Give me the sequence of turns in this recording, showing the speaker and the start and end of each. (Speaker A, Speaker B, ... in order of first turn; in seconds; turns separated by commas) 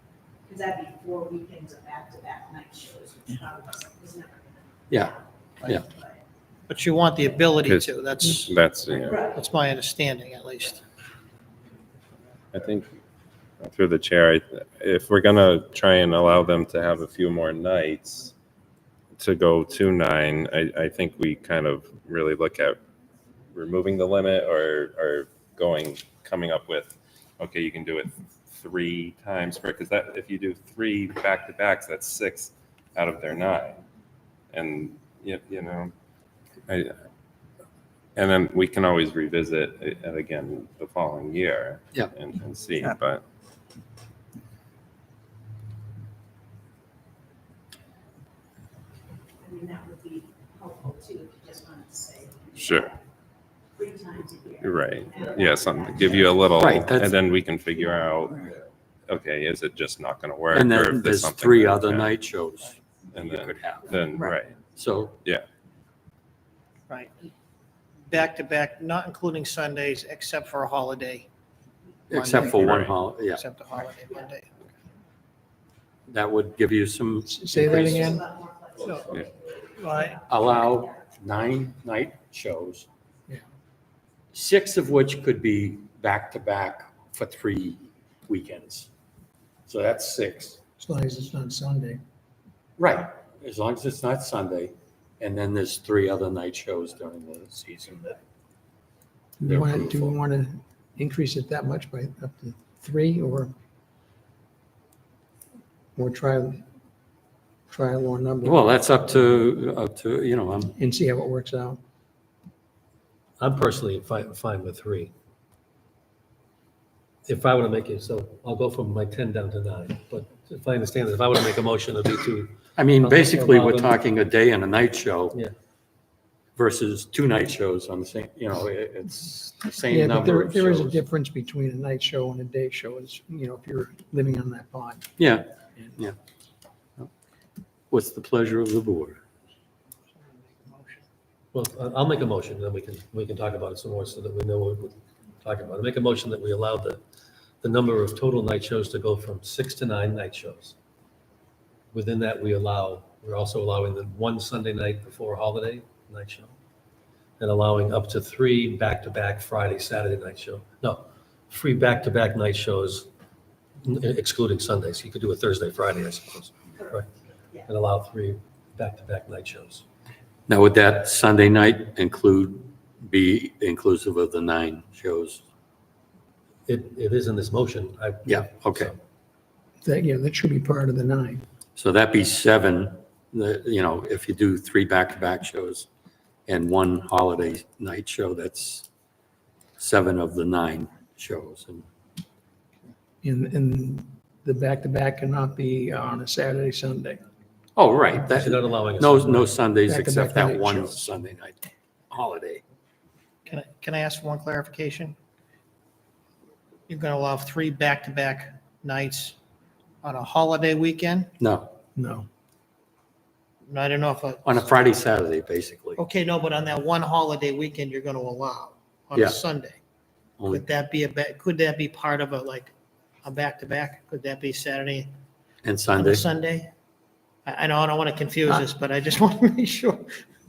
Speaker A: 0.5-6.2, Speaker B: 4.9-5.8, Speaker C: 6.7-8.5, Speaker D: 7.6-9.3, Speaker C: 9.1-10.8, Speaker D: 12.5-12.9, Speaker D: 13.6-18.3, Speaker D: 19.2-22.8, Speaker D: 23.5-33.8, Speaker D: 34.5-35.9, Speaker D: 36.7-36.9, Speaker D: 38.1-43.2, Speaker A: 49.4-53.0, Speaker D: 52.5-52.9, Speaker A: 53.8-56.4, Speaker D: 54.6-58.5, Speaker B: 56.6-57.1, Speaker D: 59.1-62.1, Speaker B: 60.5-63.9, Speaker D: 63.1-64.6, Speaker B: 64.7-65.2, Speaker C: 68.1-71.3, Speaker B: 72.1-73.4, Speaker C: 72.1-74.5, Speaker D: 72.4-72.9, Speaker B: 76.1-78.2, Speaker E: 77.2-78.2, Speaker A: 77.6-80.7, Speaker C: 78.8-79.1, Speaker C: 79.8-80.2, Speaker B: 80.3-82.9, Speaker B: 84.3-88.9, Speaker B: 89.7-90.6, Speaker E: 90.8-92.0, Speaker B: 92.8-98.2, Speaker E: 99.4-103.5, Speaker B: 99.4-100.2, Speaker E: 106.0-106.6, Speaker E: 107.7-108.7, Speaker B: 108.4-110.7, Speaker E: 110.8-111.8, Speaker F: 113.4-115.1, Speaker F: 117.2-124.0, Speaker B: 122.8-125.4, Speaker B: 126.6-131.0, Speaker E: 129.9-135.1, Speaker B: 135.2-136.2, Speaker B: 137.9-139.2, Speaker C: 140.2-141.0, Speaker F: 141.5-147.0, Speaker F: 147.6-150.8, Speaker F: 151.9-156.5, Speaker F: 157.4-163.1, Speaker F: 163.8-167.1, Speaker F: 167.6-169.8, Speaker B: 170.5-175.4, Speaker F: 176.7-179.0, Speaker B: 178.2-178.9, Speaker E: 179.8-181.4, Speaker B: 181.8-185.9, Speaker B: 186.5-188.9, Speaker B: 189.8-191.8, Speaker E: 193.2-197.2, Speaker B: 197.8-202.6, Speaker F: 198.3-199.5, Speaker E: 199.9-201.1, Speaker C: 203.5-205.2, Speaker C: 206.9-209.3, Speaker C: 210.0-211.3, Speaker B: 211.4-211.7, Speaker E: 211.9-212.3, Speaker C: 213.7-214.6, Speaker B: 214.4-216.0, Speaker C: 216.0-219.8, Speaker B: 219.1-219.4, Speaker B: 220.4-220.6, Speaker C: 220.5-222.7, Speaker C: 223.2-225.1, Speaker B: 225.6-226.2, Speaker C: 225.9-226.7, Speaker C: 227.4-230.1